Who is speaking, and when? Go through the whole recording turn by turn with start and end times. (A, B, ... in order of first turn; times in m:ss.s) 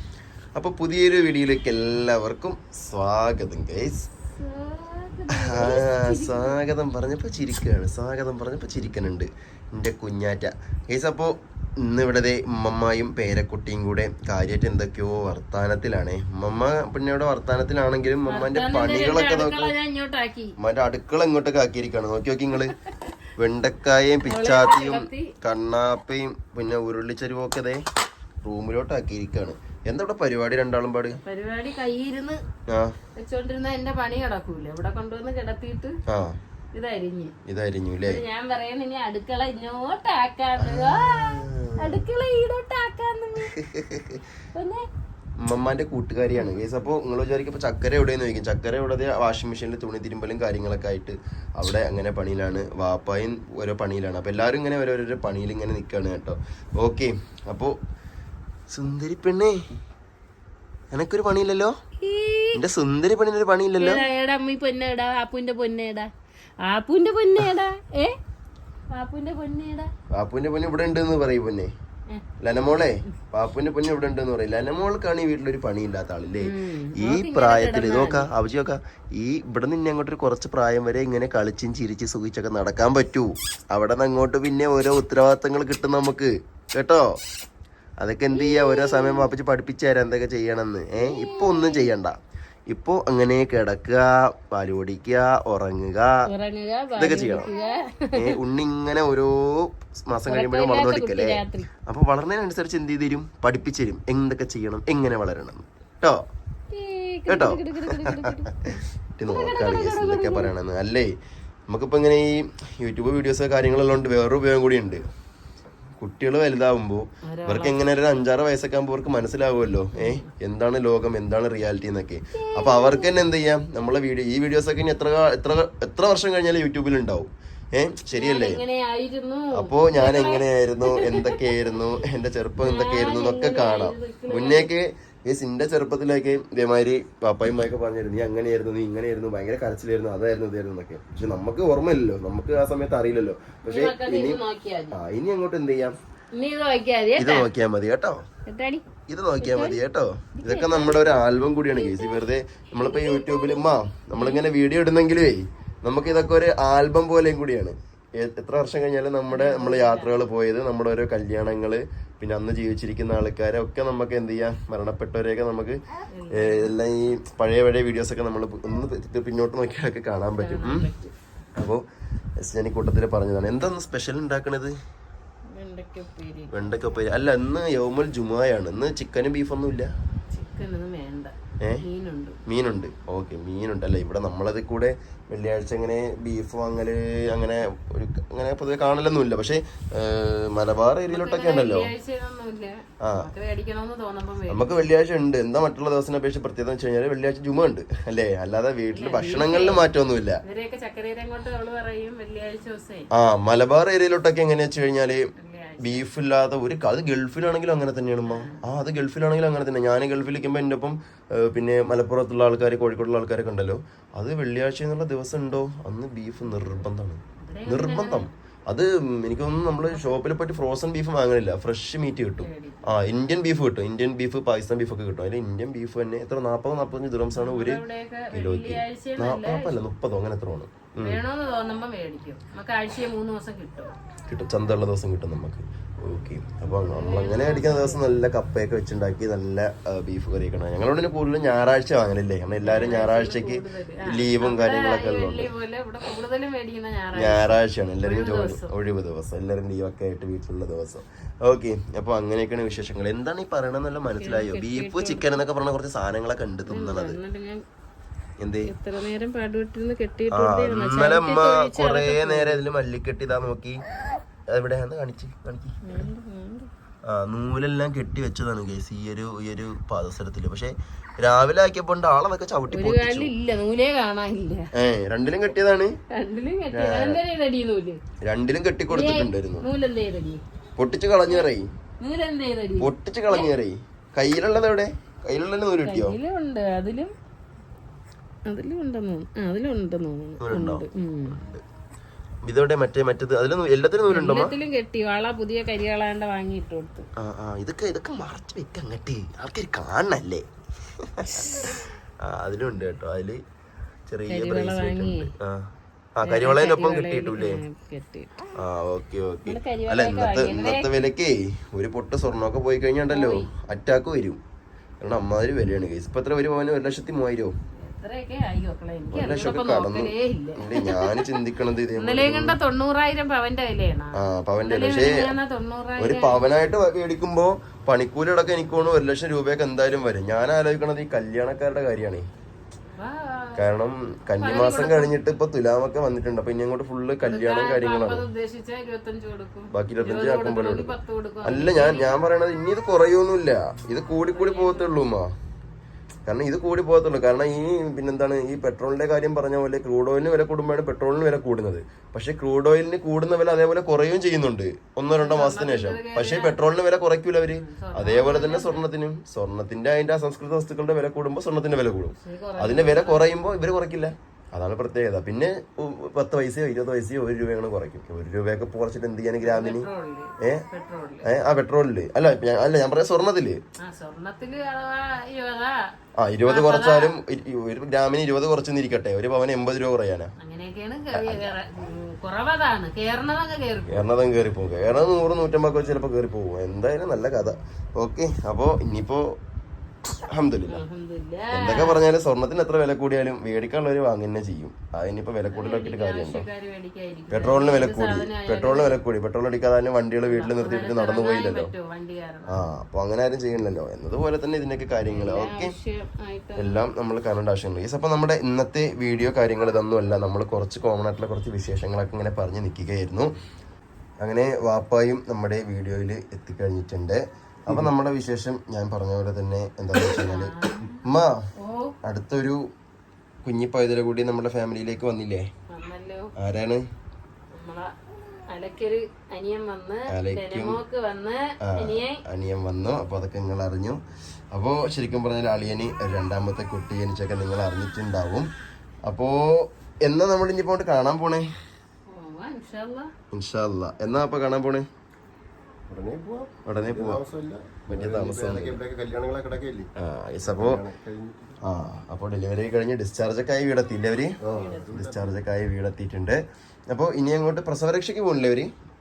0:00.5-0:04.1 A
0:04.3-0:06.6 B
0:05.3-0:19.7 A
0:18.2-0:20.6 B
0:20.6-0:22.7 A
0:23.4-0:27.8 A
0:24.2-0:25.3 B
0:28.4-0:31.2 A
0:31.2-0:32.4 B
0:32.7-0:32.9 A
0:33.2-0:36.0 B
0:36.1-0:36.4 A
0:36.7-0:37.3 B
0:37.4-0:38.2 A
0:38.0-0:43.5 B
0:40.6-0:42.0 A
0:43.4-0:44.2 A
0:44.5-0:44.8 B
0:45.4-0:57.8 A
0:58.7-0:59.6 A
1:00.9-1:01.7 A
1:02.0-1:02.6 B
1:02.5-1:04.0 A
1:03.8-1:06.1 B
1:06.6-1:08.2 B
1:08.9-1:09.9 B
1:10.1-1:11.7 A
1:12.4-1:27.2 A
1:16.4-1:18.3 B
1:28.0-1:32.2 A
1:28.3-1:29.3 B
1:31.0-1:31.9 B
1:32.7-1:36.1 A
1:36.3-1:38.3 B
1:37.0-1:37.5 A
1:38.1-1:46.2 A
1:40.3-1:41.7 B
1:46.7-1:48.5 B
1:47.3-1:51.1 A
1:49.3-1:50.5 B
1:51.7-1:55.1 A
1:56.0-2:08.6 A
1:57.3-1:57.8 B
1:59.9-2:00.3 B
2:02.4-2:03.2 B
2:08.1-2:11.8 B
2:09.5-2:24.4 A
2:12.6-2:14.7 B
2:23.6-2:25.0 B
2:24.9-2:26.0 A
2:26.3-2:27.5 B
2:27.2-2:28.2 A
2:28.4-2:28.8 B
2:29.1-2:45.8 A
2:29.4-2:29.8 B
2:30.4-2:31.2 B
2:31.7-2:32.2 B
2:32.8-2:33.6 B
2:34.1-2:34.5 B
2:39.3-2:40.3 B
2:46.1-2:46.8 B
2:46.3-2:50.9 A
2:50.4-2:51.1 B
2:51.5-2:51.8 A
2:52.4-2:54.7 A
2:55.5-2:56.5 B
2:56.5-2:59.9 A
3:00.3-3:02.4 B
3:02.5-3:11.9 A
3:11.1-3:14.8 B
3:13.0-3:13.3 A
3:14.5-3:20.4 A
3:18.9-3:19.9 B
3:20.4-3:23.1 B
3:23.1-3:25.2 A
3:25.4-3:26.1 B
3:25.8-3:51.2 A
3:28.2-3:28.6 B
3:37.4-3:38.3 B
3:39.9-3:40.1 B
3:42.4-3:42.8 B
3:47.3-3:49.8 B
3:51.0-3:53.9 B
3:54.3-4:05.5 A
3:56.7-3:58.0 B
4:02.6-4:08.7 B
4:07.1-4:17.2 A
4:14.2-4:15.4 B
4:16.6-4:17.6 B
4:18.4-4:18.7 A
4:18.6-4:22.6 B
4:20.3-4:23.8 A
4:24.5-4:26.1 A
4:25.8-4:26.7 B
4:27.0-4:33.3 A
4:32.7-4:34.7 B
4:34.7-4:36.0 A
4:36.1-4:38.0 B
4:36.7-4:37.2 A
4:38.2-4:39.7 A
4:38.9-4:40.4 B
4:40.8-4:41.7 A
4:42.0-4:43.5 B
4:42.8-4:46.2 A
4:45.8-4:47.1 B
4:48.4-4:51.4 B
4:50.4-4:51.6 A
4:52.4-4:54.5 A
4:54.1-4:57.1 B
4:57.2-5:00.4 A
5:01.0-5:03.4 A
5:01.2-5:01.8 B
5:04.1-5:07.6 A
5:04.3-5:05.3 B
5:06.2-5:08.3 B
5:08.5-5:14.4 A
5:09.4-5:11.0 B
5:13.1-5:13.5 B
5:15.0-5:17.5 A
5:17.8-5:21.4 B
5:19.1-5:22.6 A
5:22.0-5:26.4 B
5:24.1-5:25.3 A
5:26.0-5:32.2 A
5:32.9-5:33.7 B
5:33.6-5:38.2 A
5:34.4-5:35.1 B
5:37.2-5:42.2 B
5:39.7-5:45.3 A
5:44.2-5:45.0 B
5:46.2-6:09.9 A
5:55.1-5:56.6 B
5:57.5-5:58.9 B
6:02.2-6:03.4 B
6:09.4-6:11.3 B
6:11.2-6:13.6 A
6:13.8-6:15.9 B
6:16.2-6:20.3 A
6:16.4-6:17.2 B
6:20.4-6:24.1 B
6:21.1-6:21.6 A
6:23.9-6:29.3 A
6:30.1-6:30.8 A
6:30.7-6:32.0 B
6:31.5-6:36.5 A
6:35.5-6:39.0 B
6:37.3-6:41.7 A
6:40.3-6:42.6 B
6:42.5-6:45.7 A
6:45.1-6:46.8 B
6:46.6-6:53.3 A
6:54.2-7:01.4 A
7:00.0-7:01.0 B
7:01.6-7:01.9 B
7:02.0-7:02.6 A
7:03.4-7:05.5 A
7:05.7-7:06.3 B
7:06.4-7:06.8 A
7:07.5-7:07.9 B
7:08.5-7:12.2 B
7:10.1-7:10.8 A
7:11.6-7:14.0 A
7:14.5-7:18.5 A
7:19.0-7:21.5 A
7:22.1-7:23.1 B
7:23.3-7:24.9 A
7:25.9-7:29.9 C
7:26.6-7:27.2 A
7:27.9-7:28.8 A
7:30.0-7:30.8 A
7:30.4-7:31.6 C
7:31.6-7:34.4 A
7:34.4-7:35.3 C
7:34.5-7:34.9 B
7:34.9-7:38.7 A